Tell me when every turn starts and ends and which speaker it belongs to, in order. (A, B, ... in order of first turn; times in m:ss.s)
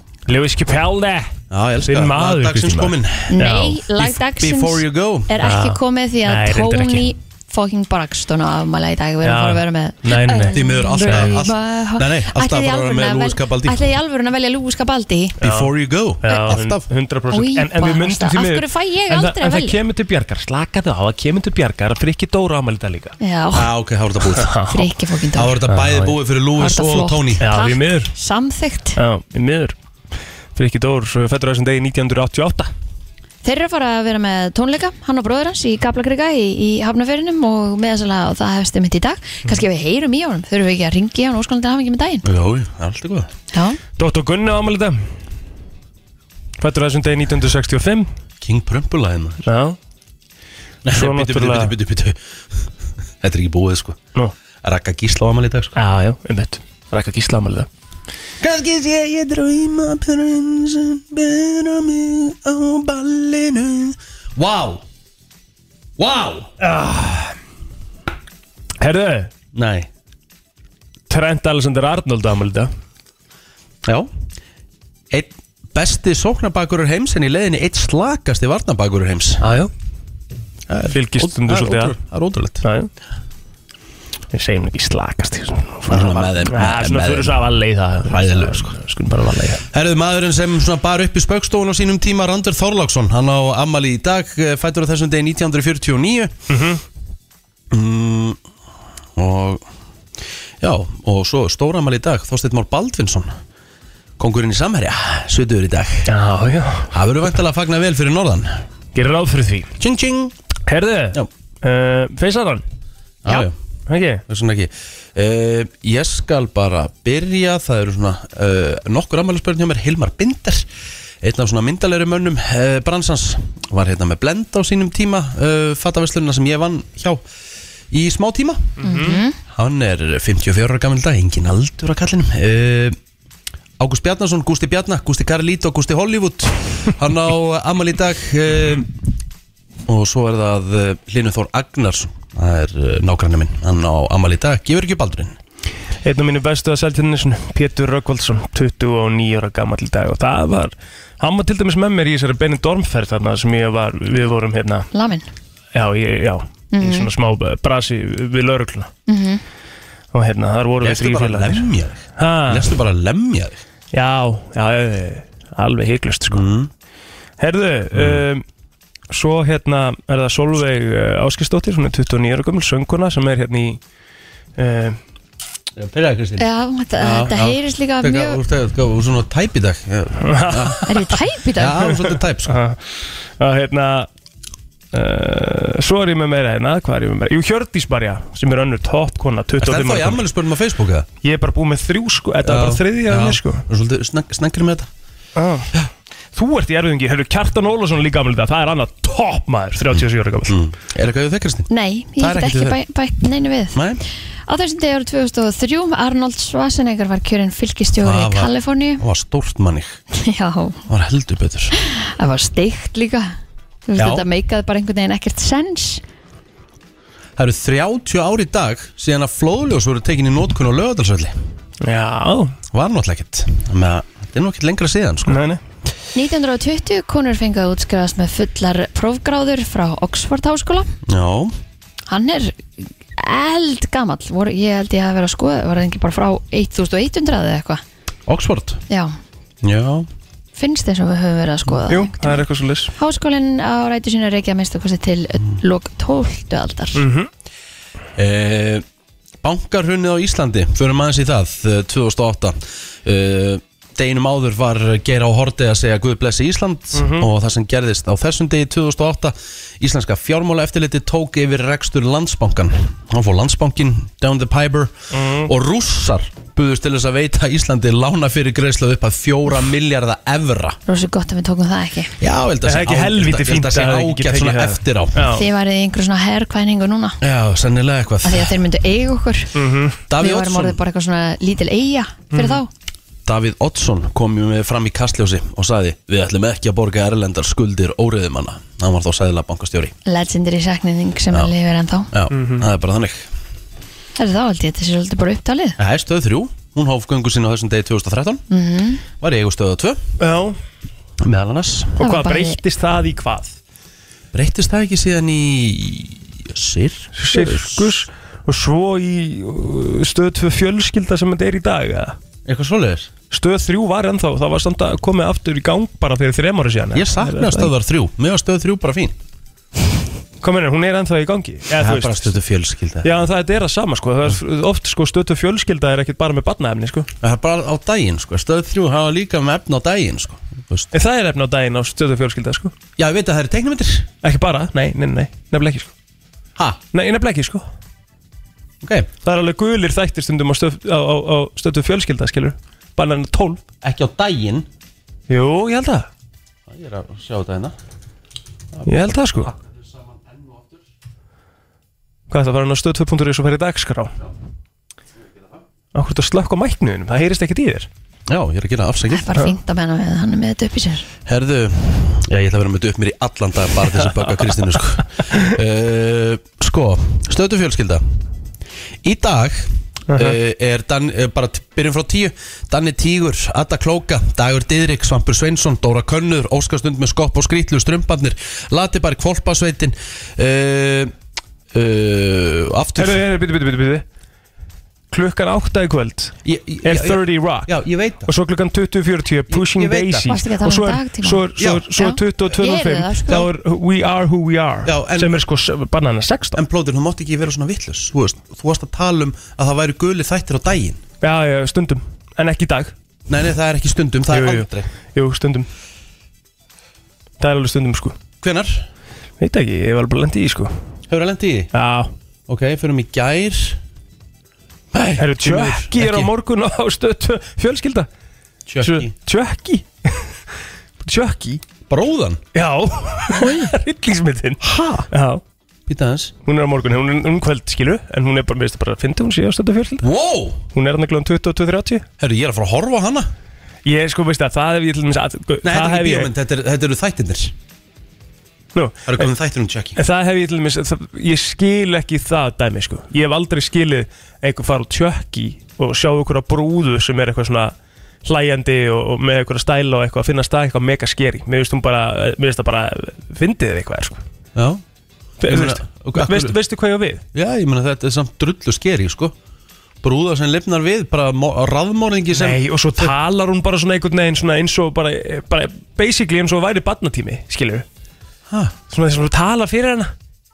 0:00.3-0:03.8 A
0:01.5-0:05.3 B
0:03.3-0:15.4 C
0:05.4-0:07.1 A
0:09.2-0:11.3 A
0:10.5-0:13.8 B
0:15.4-0:15.7 A
0:15.4-0:16.8 B
0:16.2-0:23.2 A
0:17.3-0:19.8 C
0:23.2-0:23.7 C
0:23.5-0:24.5 B
0:24.4-0:24.9 A
0:24.7-0:25.6 C
0:25.4-0:27.4 B
0:25.7-0:26.2 A
0:26.6-0:29.0 C
0:27.4-0:28.1 A
0:29.0-0:29.8 A
0:30.6-0:32.7 A
0:33.4-0:42.2 C
0:42.2-0:43.3 B
0:43.5-0:43.8 C
0:44.0-0:45.0 A
0:46.6-0:48.1 A
0:48.4-0:49.5 B
0:49.5-0:49.8 A
0:50.8-0:52.2 B
0:50.9-0:51.7 A
0:53.2-0:54.0 B
0:54.6-0:55.7 B
0:55.8-0:57.7 A
0:58.4-1:04.8 B
1:06.0-1:06.5 B
1:06.6-1:07.3 A
1:08.8-1:09.3 A
1:09.5-1:09.9 B
1:11.1-1:12.7 A
1:13.8-1:14.1 B
1:15.1-1:19.4 B
1:19.4-1:19.7 A
1:20.7-1:22.6 B
1:20.9-1:22.0 A
1:22.6-1:22.9 A
1:24.3-1:29.6 A
1:25.9-1:27.4 B
1:28.1-1:28.8 B
1:29.7-1:36.3 B
1:36.5-1:36.8 A
1:37.7-1:38.4 B
1:39.2-1:39.6 B
1:40.6-1:43.4 B
1:44.2-1:46.1 B
1:46.1-1:46.9 A
1:46.9-1:48.6 B
1:49.0-1:49.7 A
1:49.8-1:50.4 B
1:50.7-1:52.6 A
1:53.2-1:53.6 B
1:53.9-1:54.2 A
1:54.3-2:00.7 B
2:01.2-2:07.2 B
2:07.9-2:08.8 B
2:08.8-2:09.2 A
2:08.8-2:09.4 C
2:09.5-2:13.0 B
2:13.8-2:19.0 B
2:19.9-2:25.4 B
2:26.0-2:34.9 A
2:34.9-2:35.3 C
2:35.7-2:38.9 A
2:36.7-2:37.1 C
2:39.1-2:39.4 C
2:40.1-2:42.7 A
2:40.8-2:43.6 B
2:43.9-2:46.5 A
2:46.3-2:46.7 B
2:47.4-2:48.4 A
2:47.9-2:48.2 B
2:49.1-2:53.8 A
2:54.6-2:55.0 A
2:55.8-2:56.5 B
2:56.4-2:58.4 C
2:57.0-3:00.8 B
3:00.2-3:01.0 A
3:00.9-3:01.9 C
3:01.6-3:02.6 B
3:02.5-3:02.8 A
3:03.4-3:04.1 A
3:04.9-3:10.2 A
3:09.6-3:11.1 B
3:11.2-3:13.6 A
3:12.4-3:14.9 B
3:15.4-3:15.7 A
3:16.4-3:20.6 A
3:20.0-3:21.7 B
3:21.7-3:23.8 C
3:22.2-3:22.8 B
3:23.8-3:24.0 B
3:24.5-3:29.0 C
3:28.0-3:30.0 B
3:30.1-3:30.8 C
3:30.9-3:31.7 B
3:31.8-3:33.4 C
3:33.9-3:36.0 C
3:34.0-3:34.2 B
3:37.4-3:41.4 B
3:41.8-3:42.6 A
3:42.7-3:45.4 B
3:45.3-3:45.6 A
3:46.2-3:50.9 C
3:51.1-3:51.5 B
3:52.1-3:57.8 C
3:58.3-3:58.8 B
3:58.9-3:59.2 C
3:59.6-4:00.1 B
4:00.6-4:02.4 C
4:01.9-4:02.9 A
4:03.0-4:07.0 C
4:07.0-4:07.3 A
4:08.2-4:08.8 B
4:09.4-4:24.9 B
4:17.0-4:17.3 A
4:25.1-4:25.5 A
4:25.4-4:30.8 B
4:30.9-4:32.2 C
4:32.2-4:35.2 B
4:32.6-4:35.5 A
4:35.3-4:37.2 C
4:37.2-4:38.6 B
4:38.2-4:39.5 C
4:39.6-4:40.0 A
4:40.1-4:40.8 B
4:40.2-4:42.7 C
4:42.3-4:42.6 A
4:43.3-4:49.9 B
4:50.1-4:52.1 C
4:52.1-4:53.3 B
4:52.3-4:52.7 A
4:54.2-4:55.8 C
4:55.8-4:58.4 B
4:58.5-4:59.0 C
4:59.2-5:00.0 B
5:00.2-5:00.6 A
5:01.2-5:02.0 B
5:02.0-5:02.6 C
5:02.0-5:03.6 A
5:04.3-5:07.9 B
5:07.2-5:12.2 A
5:12.5-5:13.1 B
5:13.3-5:17.7 A
5:16.9-5:19.2 B
5:20.4-5:22.4 A
5:21.7-5:23.1 B
5:23.0-5:27.1 A
5:27.2-5:30.9 B
5:30.9-5:32.7 A
5:33.0-5:34.1 B
5:34.2-5:35.9 A
5:36.9-5:37.6 A
5:38.8-5:39.1 B
5:39.2-5:43.6 A
5:43.8-5:44.7 B
5:45.3-5:46.1 A
5:46.7-5:47.8 B
5:48.8-5:49.5 A
5:49.4-5:50.8 B
5:52.3-5:54.2 A
5:55.9-5:57.9 A
5:58.3-5:59.3 B
5:59.1-6:01.1 C
6:01.3-6:08.0 B
6:09.0-6:21.1 B
6:10.1-6:10.4 A
6:21.7-6:23.2 B
6:23.0-6:24.0 A
6:25.1-6:36.6 A
6:26.4-6:28.3 B
6:29.5-6:30.3 B
6:30.3-6:31.4 C
6:31.6-6:31.9 B
6:32.0-6:33.4 C
6:34.8-6:35.4 B
6:36.6-6:41.0 B
6:41.2-6:42.9 A
6:43.3-6:44.9 B
6:44.3-6:45.7 A
6:47.4-6:48.2 A
6:48.4-6:48.9 B
6:49.4-6:50.7 A
6:51.1-6:51.7 B
6:51.7-6:52.1 A
6:52.5-6:53.8 B
6:54.9-6:56.3 B
6:55.2-6:58.1 A
6:58.7-6:59.1 B
6:58.8-7:00.2 A
7:01.0-7:01.6 A
7:01.9-7:02.4 B
7:02.6-7:05.4 A
7:04.6-7:05.1 B
7:05.9-7:06.3 B
7:06.4-7:10.1 A
7:10.0-7:10.6 B
7:10.7-7:12.0 A
7:12.2-7:13.3 B
7:13.9-7:16.3 A
7:15.6-7:17.5 B
7:18.8-7:19.3 A
7:19.1-7:20.0 B
7:20.0-7:27.7 A
7:28.2-7:34.2 A
7:34.6-7:34.8 B
7:35.4-7:37.2 A
7:35.4-7:36.6 B
7:37.3-7:39.3 B
7:40.0-7:43.1 B
7:42.3-7:47.9 A
7:48.5-7:48.8 B
7:48.9-7:50.1 A